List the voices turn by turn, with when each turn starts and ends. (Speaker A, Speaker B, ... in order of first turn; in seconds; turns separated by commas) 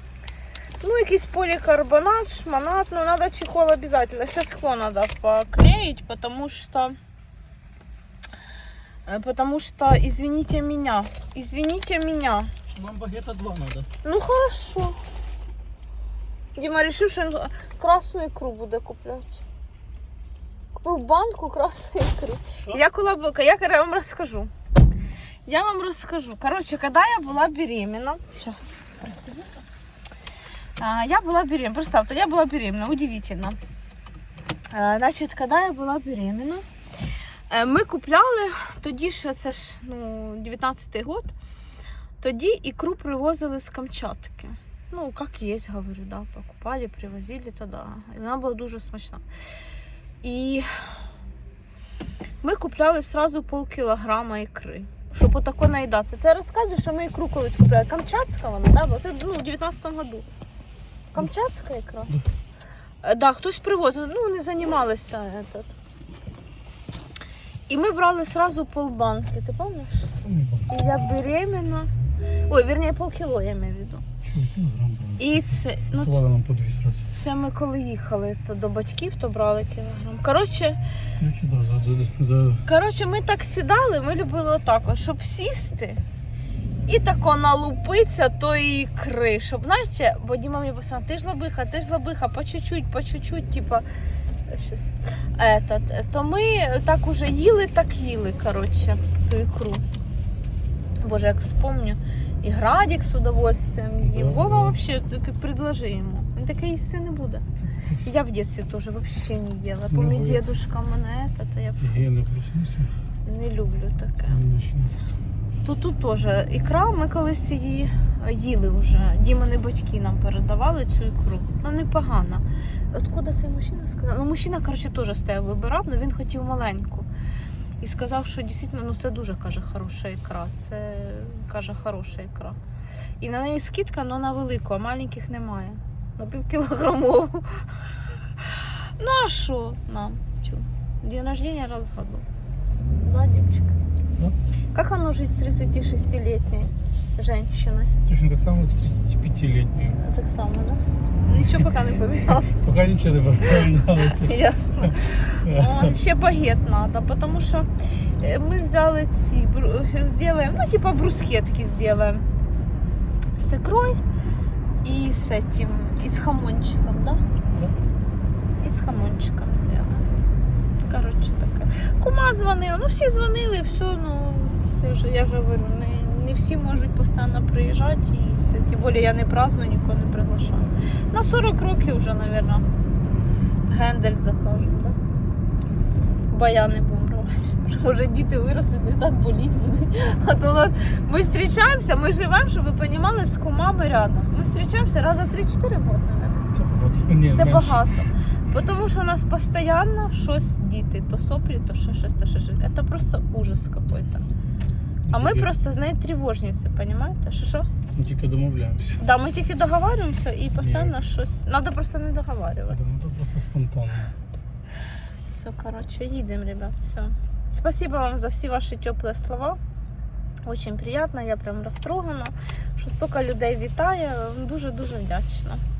Speaker A: 0.8-7.0, Speaker A: 9.1-12.5, Speaker B: 12.7-13.9, Speaker A: 14.0-15.0, Speaker A: 16.5-19.4, Speaker A: 20.7-24.5, Speaker A: 25.4-29.6, Speaker A: 30.8-33.6, Speaker A: 34.7-36.6, Speaker A: 37.5-41.3, Speaker A: 42.2-49.2, Speaker A: 50.2-50.9, Speaker A: 52.4-60.2, Speaker A: 61.1-62.1, Speaker A: 63.0-65.8, Speaker A: 67.7-70.1, Speaker B: 70.2-70.8, Speaker A: 70.7-71.9, Speaker A: 72.5-74.0, Speaker B: 74.2-77.0, Speaker A: 75.2-76.2, Speaker A: 77.1-80.8, Speaker B: 81.2-82.6, Speaker A: 82.6-86.0, Speaker A: 86.8-93.8, Speaker A: 94.5-99.8, Speaker A: 101.0-107.5, Speaker B: 104.0-104.8, Speaker B: 107.6-108.0, Speaker A: 108.0-112.0, Speaker B: 109.9-110.4, Speaker B: 111.8-112.9, Speaker A: 113.2-114.4, Speaker B: 114.3-115.0, Speaker A: 115.6-127.1, Speaker A: 127.8-132.6, Speaker A: 133.2-142.2, Speaker A: 143.0-143.8, Speaker A: 144.7-147.9, Speaker B: 148.1-150.0, Speaker A: 149.9-152.6, Speaker B: 151.3-151.7, Speaker B: 152.4-155.9, Speaker A: 153.8-157.7, Speaker A: 158.2-162.2, Speaker A: 163.4-164.0, Speaker A: 164.8-167.2, Speaker A: 168.6-170.1, Speaker A: 170.8-182.7, Speaker A: 183.7-185.0, Speaker A: 186.3-196.5, Speaker B: 196.5-197.8, Speaker A: 197.3-204.3, Speaker B: 205.0-205.5, Speaker A: 205.1-207.7, Speaker B: 207.9-209.0, Speaker A: 209.0-212.9, Speaker B: 210.6-211.0, Speaker B: 212.7-214.1, Speaker A: 215.3-219.6, Speaker A: 220.4-225.6